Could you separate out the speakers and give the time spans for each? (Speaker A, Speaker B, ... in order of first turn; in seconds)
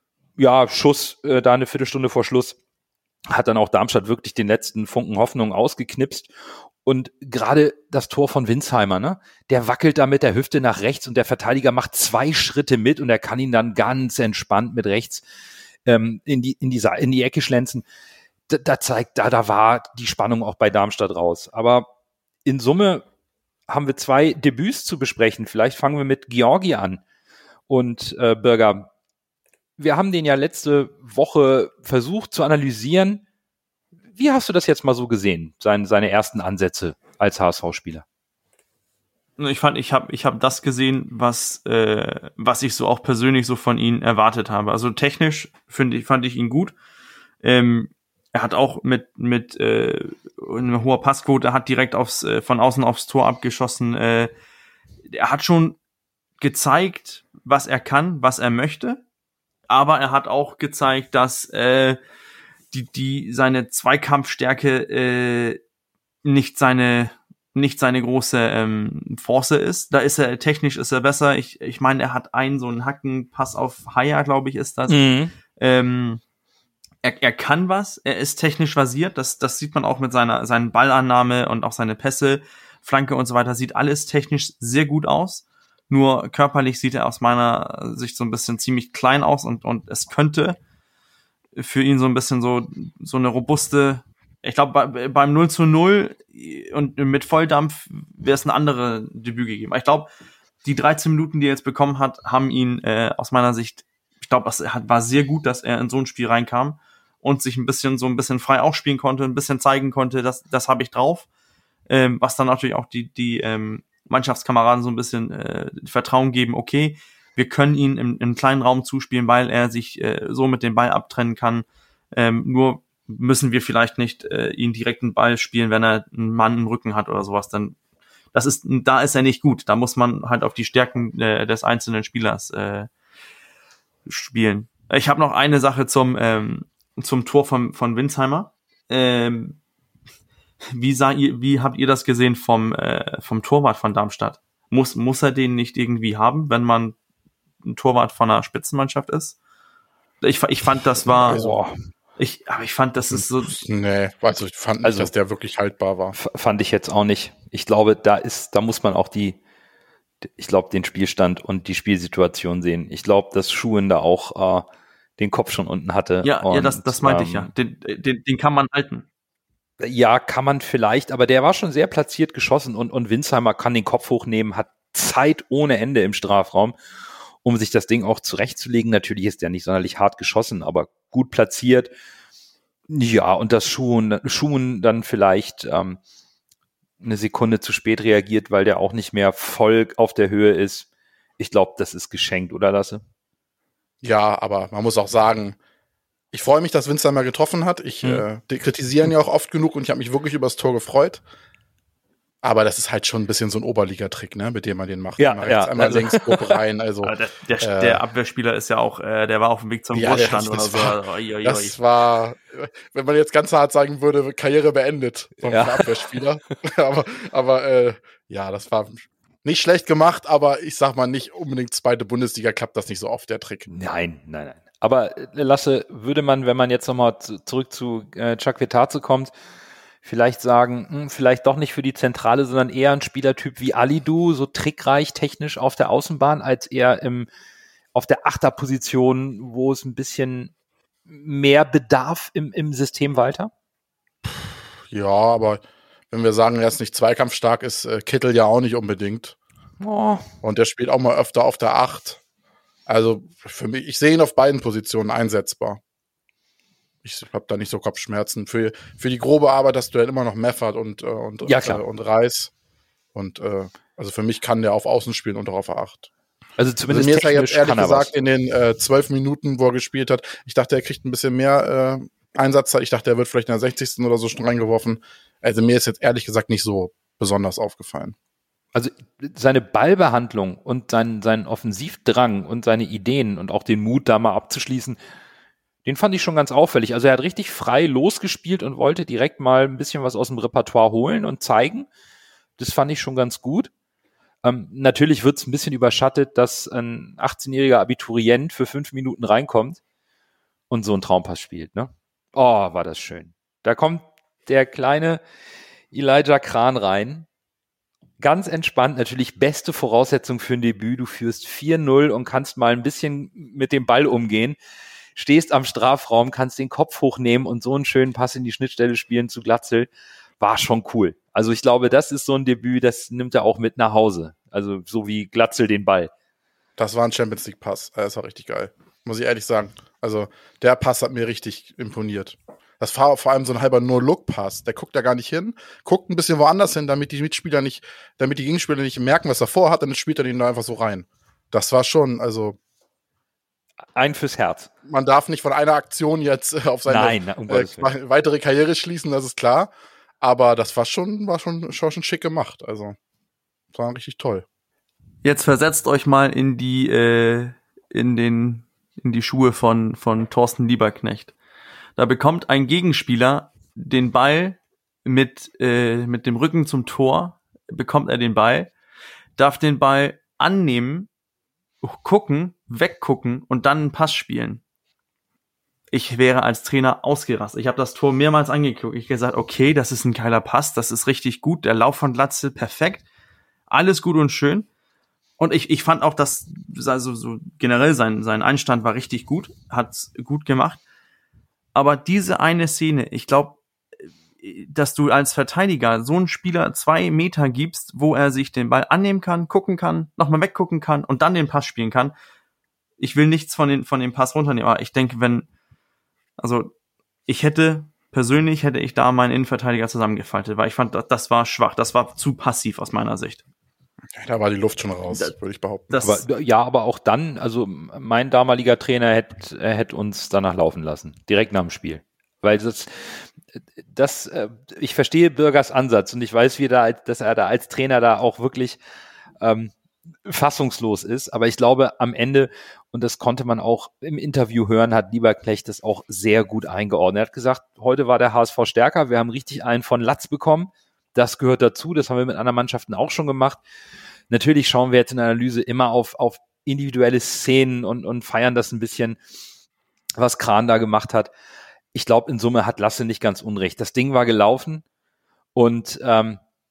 Speaker A: 0.4-2.6, 3.3-6.3, 6.8-15.2, 15.8-17.8, 18.5-21.9, 22.4-23.0, 23.7-27.0, 27.7-28.9, 29.8-33.2, 34.1-38.0, 74.9-75.3, 151.2-151.8, 154.8-155.1, 156.2-159.4, 160.2-164.7, 165.2-167.5, 169.8-176.8, 177.4-181.9, 182.9-186.0, 187.0-190.9, 191.4-193.0, 205.2-206.6, 215.4-216.1, 223.7-229.3, 230.0-237.3, 237.9-240.5, 241.1-243.5, 249.8-250.3, 261.4-261.8, 266.6-268.1, 278.8-285.0, 285.9-291.9, 292.6-293.7, 294.4-299.8, 300.7-305.2, 305.9-307.3, 308.2-314.6, 315.1-319.9, 320.4-326.1, 344.0-344.7, 346.9-347.9, 416.0-428.8, 429.4-429.7, 430.2-443.6, 444.3-449.2, 450.2-451.3, 451.9-454.8, 455.6-456.4
Speaker B: 39.4-46.7, 47.4-54.3, 55.1-55.8, 56.4-59.0, 59.7-62.0, 62.7-65.6, 66.2-75.0, 75.6-76.2, 77.0-90.6, 91.6-100.1, 100.6-111.3, 111.9-127.8, 128.3-132.9, 134.1-139.6, 140.7-146.9, 147.6-149.4, 150.2-151.5, 152.2-153.6, 166.2-169.1, 207.0-211.8, 355.2-361.3, 362.0-368.7, 369.4-371.1, 371.8-374.6, 375.9-383.0, 383.7-384.7, 385.4-390.8, 391.7-393.6, 394.4-402.1, 403.0-405.5, 406.4-406.7, 407.3-413.4, 415.9-416.2
Speaker C: 153.1-156.2, 194.0-195.6, 196.3-201.2, 202.4-208.0, 209.9-223.7, 244.2-249.4, 250.4-252.2, 252.9-255.8, 257.0-262.5, 263.1-266.1, 266.9-278.2, 326.8-342.6, 344.9-353.0, 353.7-354.4, 414.1-415.9